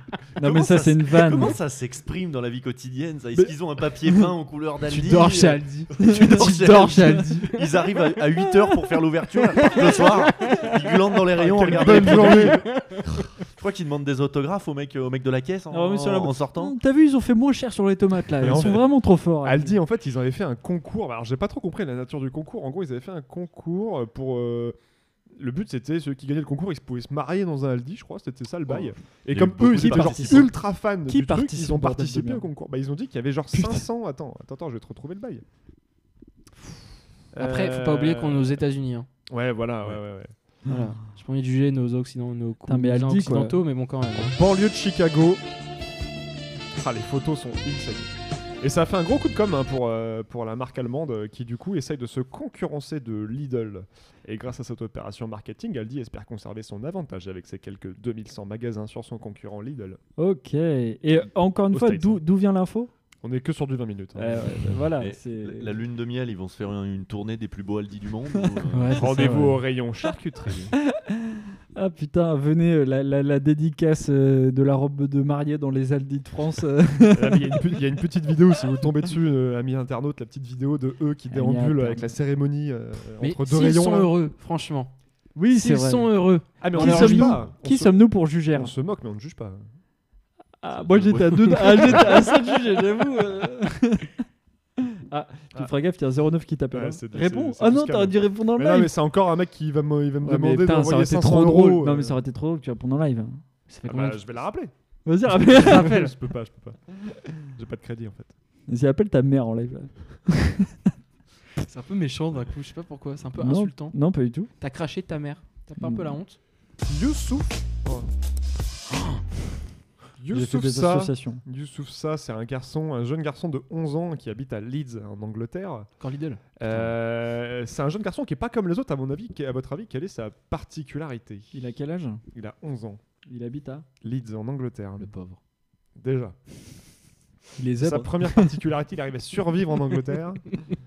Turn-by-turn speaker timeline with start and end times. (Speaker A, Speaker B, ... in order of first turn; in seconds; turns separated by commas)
Speaker A: 0.4-12.7, Speaker B: 0.4-1.6, Speaker C: 4.9-7.6, Speaker B: 6.0-6.5, Speaker B: 8.4-8.9, Speaker B: 9.6-9.9, Speaker C: 9.7-10.7, Speaker D: 11.4-12.7, Speaker C: 11.8-12.8, Speaker A: 13.5-16.7, Speaker B: 15.7-19.7, Speaker D: 18.4-24.8, Speaker D: 25.3-35.4, Speaker A: 29.3-30.5, Speaker B: 29.8-30.6, Speaker B: 31.1-32.4, Speaker B: 33.5-33.8, Speaker D: 37.3-38.6, Speaker C: 37.4-39.1, Speaker D: 39.3-40.3, Speaker C: 40.7-44.3, Speaker B: 42.7-43.6, Speaker D: 44.3-45.4, Speaker D: 46.7-60.0, Speaker B: 60.2-62.9, Speaker D: 61.7-62.2, Speaker D: 63.2-64.6, Speaker B: 64.2-65.7, Speaker A: 64.9-69.1, Speaker C: 68.7-69.5, Speaker D: 69.0-70.7, Speaker B: 69.0-69.5, Speaker B: 70.9-77.5, Speaker D: 77.1-84.1, Speaker B: 81.3-82.0, Speaker C: 83.2-84.9, Speaker B: 85.3-86.1, Speaker C: 85.5-87.4, Speaker D: 86.6-89.6, Speaker B: 86.7-88.7, Speaker B: 90.6-94.1, Speaker A: 90.7-92.2, Speaker C: 91.6-92.1, Speaker B: 95.1-98.9, Speaker D: 96.7-102.2, Speaker B: 100.2-103.4, Speaker C: 103.7-104.3, Speaker D: 103.8-104.7, Speaker B: 105.0-106.1, Speaker D: 105.2-108.3, Speaker B: 108.7-110.7, Speaker C: 111.6-114.0, Speaker B: 113.4-114.5, Speaker C: 114.6-116.4, Speaker B: 115.8-116.2, Speaker D: 116.8-118.1, Speaker D: 120.2-125.9, Speaker B: 120.3-121.4, Speaker C: 126.0-126.4, Speaker D: 126.6-131.5, Speaker B: 131.5-132.2, Speaker D: 132.3-133.0, Speaker B: 133.3-133.8, Speaker D: 134.0-135.1, Speaker C: 135.0-135.4, Speaker D: 136.0-136.4, Speaker B: 137.6-138.4, Speaker D: 137.8-140.5